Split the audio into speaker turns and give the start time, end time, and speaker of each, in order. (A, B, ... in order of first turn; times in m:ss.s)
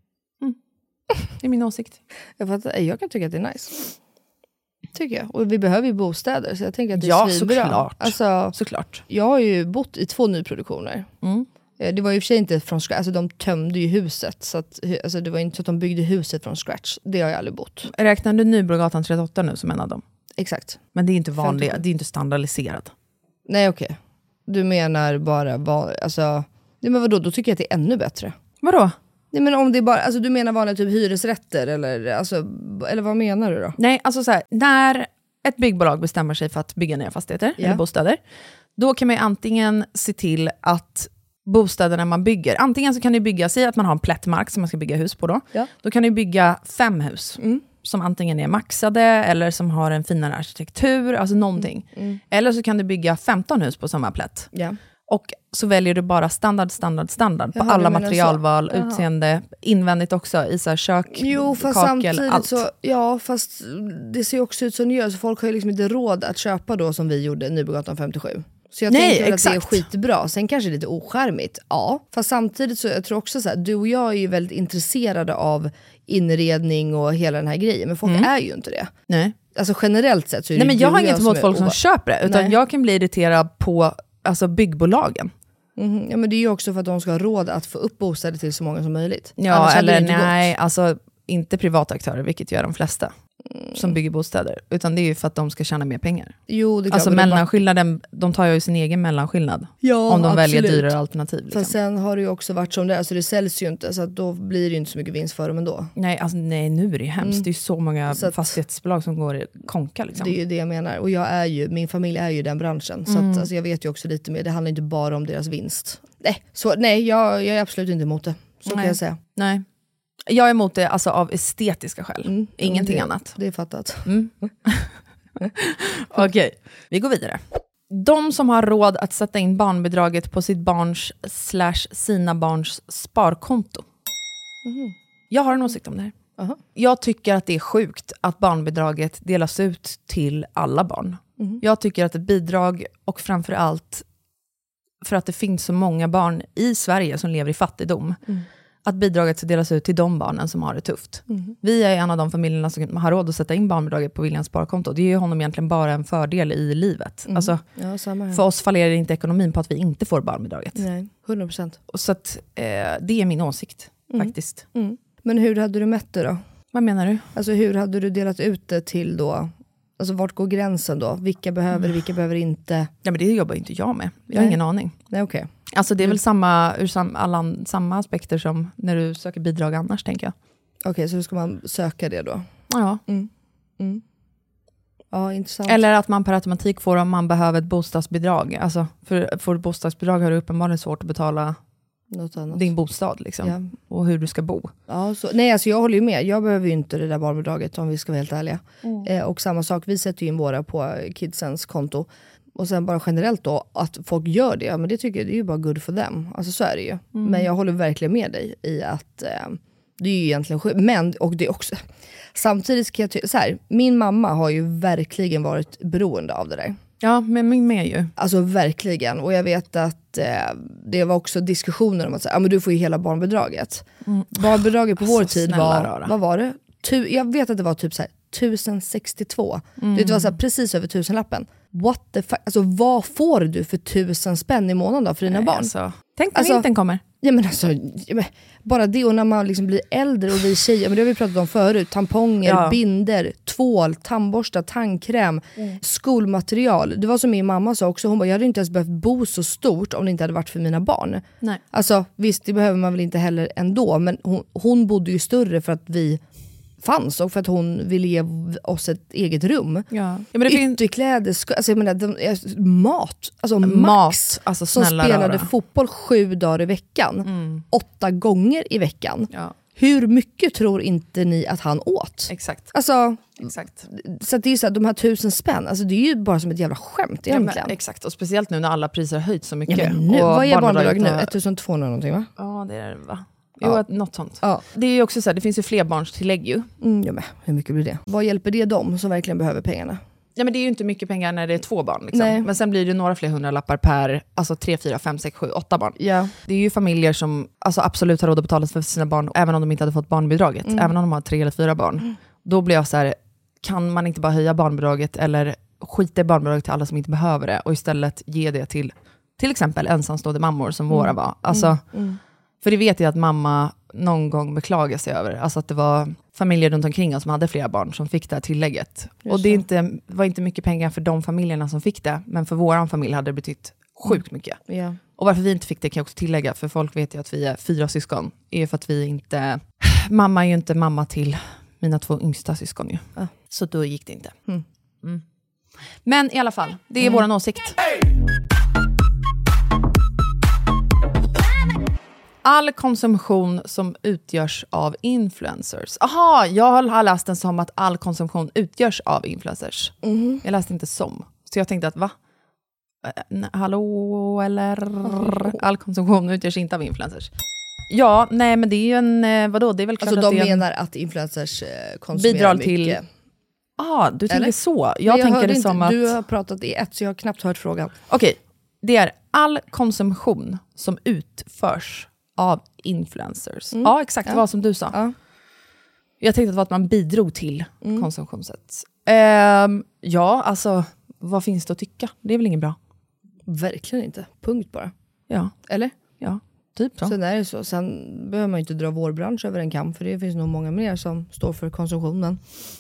0:01.4-0:02.0 A
0:02.4-0:04.0 B
0:04.9-0:08.6 B
0:07.0-0:09.0 A
0:09.1-0:11.1 B
0:11.8-0:17.9 B
0:17.9-0:20.0 A
0:20.4-0:20.8 B
0:20.9-0:22.9 A
0:21.4-0:21.8 B
0:23.5-0:28.3 B
0:28.6-0:28.9 A
0:29.3-0:33.8 B
0:33.8-0:38.2 A
0:38.8-0:54.5 A
0:47.4-0:47.6 B
0:51.6-0:52.2 B
0:55.1-1:02.6 A
0:57.6-0:59.0 B
1:01.1-1:18.9 B
1:08.9-1:09.9 A
1:19.1-1:19.4 A
1:19.5-1:22.6 B
1:20.6-1:25.3 A
1:25.8-1:30.5 B
1:29.4-1:33.1 A
1:33.5-1:33.9 B
1:33.7-1:36.4 A
1:36.5-1:37.5 B
1:36.9-1:41.7 A
1:39.8-1:40.9 B
1:41.5-1:45.9 B
1:46.0-1:50.4 A
1:48.1-1:48.4 B
1:50.1-1:59.2 B
1:53.1-1:53.5 A
1:58.7-1:59.6 A
2:00.3-2:03.4 A
2:02.2-2:04.2 B
2:04.0-2:04.9 A
2:05.4-2:13.9 A
2:14.6-2:14.9 B
2:15.3-2:16.1 A
2:16.8-2:24.0 A
2:25.0-2:28.2 A
2:28.9-2:37.6 A
2:37.3-2:38.4 B
2:38.3-2:40.8 A
2:40.8-2:41.8 B
2:41.9-2:44.6 A
2:44.1-2:46.4 B
2:46.7-2:47.3 A
2:47.3-2:52.9 B
2:53.0-2:54.9 A
2:54.3-2:54.6 B
2:55.1-2:55.5 B
2:55.7-3:00.3 A
3:00.8-3:02.4 B
3:02.7-3:03.0 A
3:03.1-3:04.0 B
3:05.1-3:05.8 B
3:05.6-3:11.6 A
3:12.1-3:12.7 B
3:12.5-3:14.7 A
3:14.9-3:31.8 B
3:27.1-3:27.5 A
3:32.3-3:36.8 B
3:37.0-3:38.1 A
3:38.2-3:55.7 B
3:44.1-3:46.1 A
3:49.8-3:50.3 A
3:55.3-3:57.0 A
3:56.3-3:56.6 B
3:57.2-4:16.2 B
4:02.4-4:02.8 A
4:16.8-4:19.9 B
4:19.9-4:20.8 A
4:20.5-4:37.7 B
4:23.6-4:25.5 A
4:27.2-4:27.6 A
4:32.3-4:32.7 A
4:33.4-4:33.8 A
4:37.3-4:41.3 A
4:39.7-4:42.3 B
4:42.4-4:46.7 A
4:46.8-4:50.0 B
4:50.4-5:11.8 A
4:52.1-4:52.5 B
4:56.0-4:56.3 B
5:00.6-5:00.9 B
5:10.9-5:12.2 B
5:12.6-5:24.6 A
5:19.3-5:19.6 B
5:24.1-5:25.0 B
5:25.2-5:34.3 A
5:36.0-5:37.8 A
5:42.4-5:52.1 A
5:50.0-5:50.4 B
5:53.0-5:57.3 A
5:55.0-5:55.6 B
5:57.9-6:00.6 A
6:00.0-6:03.0 B
6:02.1-6:03.0 A
6:03.8-6:06.1 A
6:05.0-6:08.0 B
6:08.1-6:15.0 A
6:13.7-6:15.1 B
6:16.2-6:22.8 A
6:17.8-6:18.1 B
6:23.5-6:24.9 B
6:25.7-6:25.9 B
6:26.2-6:27.1 A
6:27.0-6:32.4 B